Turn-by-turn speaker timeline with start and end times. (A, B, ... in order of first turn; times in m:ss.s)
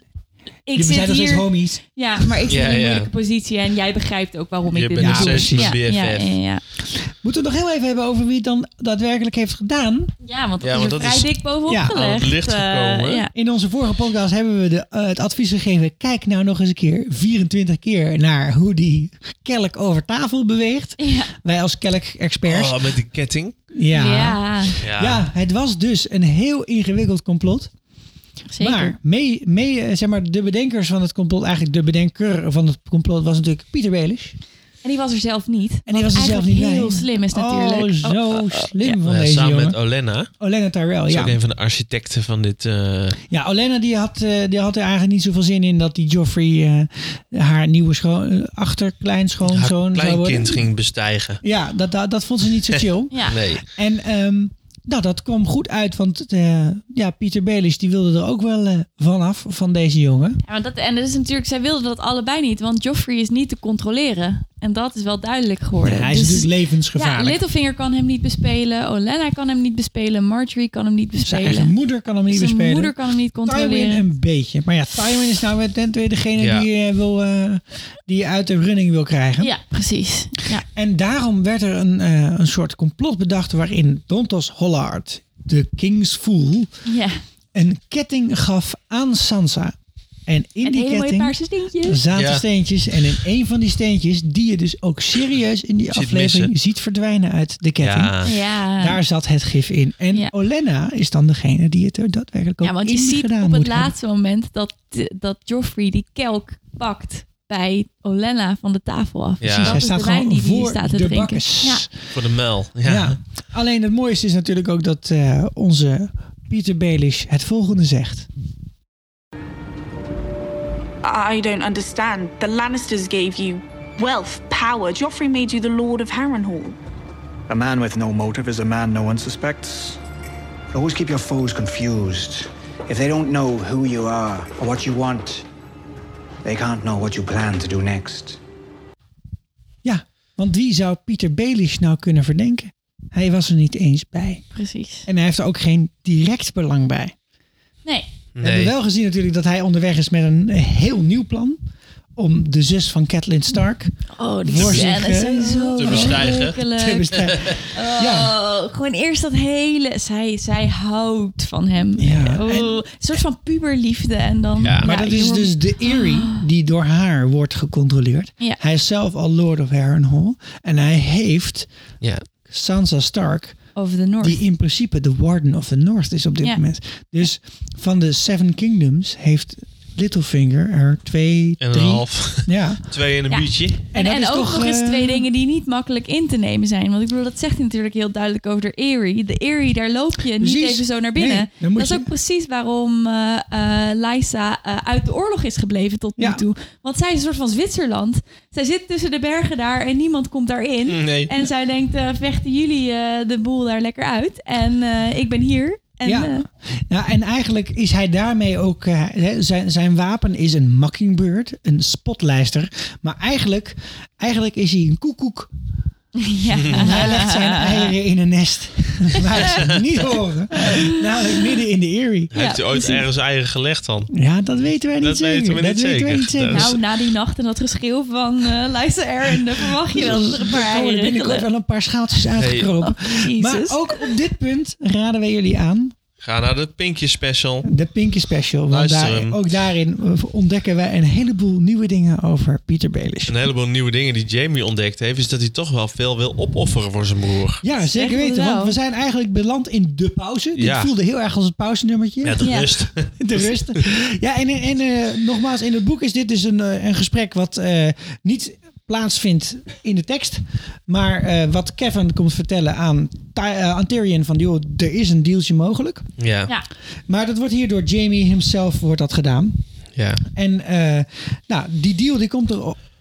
0:00.7-0:06.6 A
0:00.7-0:01.8 B
0:02.5-0:03.1 C
0:04.7-0:06.4 C
0:05.0-0:05.7 B
0:06.9-0:10.1 B
0:10.2-0:13.3 A
0:10.6-0:13.2 C
0:11.7-0:12.0 B
0:13.3-0:22.8 B
0:21.0-0:21.3 A
0:22.4-0:23.6 C
0:23.7-0:27.7 B
0:23.9-0:24.8 A
0:24.8-0:25.2 C
0:28.5-0:28.9 A
0:28.6-0:34.4 B
0:34.8-0:38.9 A
0:35.9-0:39.8 B
0:39.0-0:40.3 C
0:40.4-0:41.4 B
0:41.1-0:43.2 C
0:43.3-0:50.6 B
0:49.5-0:51.4 C
0:51.4-1:00.4 B
0:52.7-0:53.6 C
0:53.1-0:53.4 A
1:00.4-1:11.7 A
1:05.8-1:07.4 B
1:11.2-1:12.9 B
1:12.3-1:14.0 A
1:13.4-1:19.5 B
1:16.4-1:16.7 C
1:19.4-1:20.6 A
1:20.7-1:26.7 B
1:26.8-1:27.2 A
1:27.5-1:29.8 B
1:30.3-1:43.9 B
1:30.6-1:32.0 A
1:32.1-1:32.4 C
1:35.9-1:36.5 C
1:37.8-1:38.3 C
1:38.2-1:39.0 A
1:42.6-1:51.9 A
1:49.4-1:49.8 C
1:49.4-1:51.9 B
1:52.1-1:53.2 C
1:52.8-1:58.3 B
2:01.0-2:06.8 D
2:07.5-2:10.0 E
2:10.7-2:15.4 E
2:16.4-2:18.4 E
2:19.8-2:24.4 B
2:24.5-2:25.1 A
2:25.0-2:27.1 B
2:28.4-2:28.7 C
2:28.4-2:31.6 B
2:32.2-2:33.9 B
2:34.2-2:46.4 A
2:34.4-2:38.3 B
2:34.6-2:34.9 C
2:35.8-2:36.6 C
2:37.2-2:37.5 C
2:42.0-2:42.8 B
2:44.6-2:44.9 C
2:44.8-2:51.7 B
2:52.5-3:02.9 B
2:53.8-2:54.4 A
3:01.6-3:03.8 C
3:03.3-3:26.4 A
3:03.9-3:05.2 B
3:10.4-3:12.1 B
3:16.2-3:16.4 B
3:20.9-3:21.3 C
3:26.0-3:35.5 B
3:36.2-3:37.9 A
3:36.5-3:36.9 C
3:36.7-3:42.3 B
3:42.3-3:44.1 C
3:42.3-3:43.0 A
3:44.1-3:46.8 B
3:45.0-3:46.8 C
3:46.5-3:51.4 A
3:49.9-3:55.9 B
3:52.4-3:52.7 C
3:52.8-3:54.1 A
3:56.2-3:57.6 C
3:57.6-4:03.4 B
3:58.7-3:59.4 C
4:03.3-4:07.6 C
4:07.6-4:12.5 B
4:07.8-4:08.8 A
4:10.5-4:10.9 C
4:12.2-4:13.8 C
4:12.4-4:12.7 A
4:13.1-4:26.1 B
4:26.2-4:26.5 C
4:27.1-4:29.6 B
4:29.9-4:30.2 C
4:30.3-4:32.8 B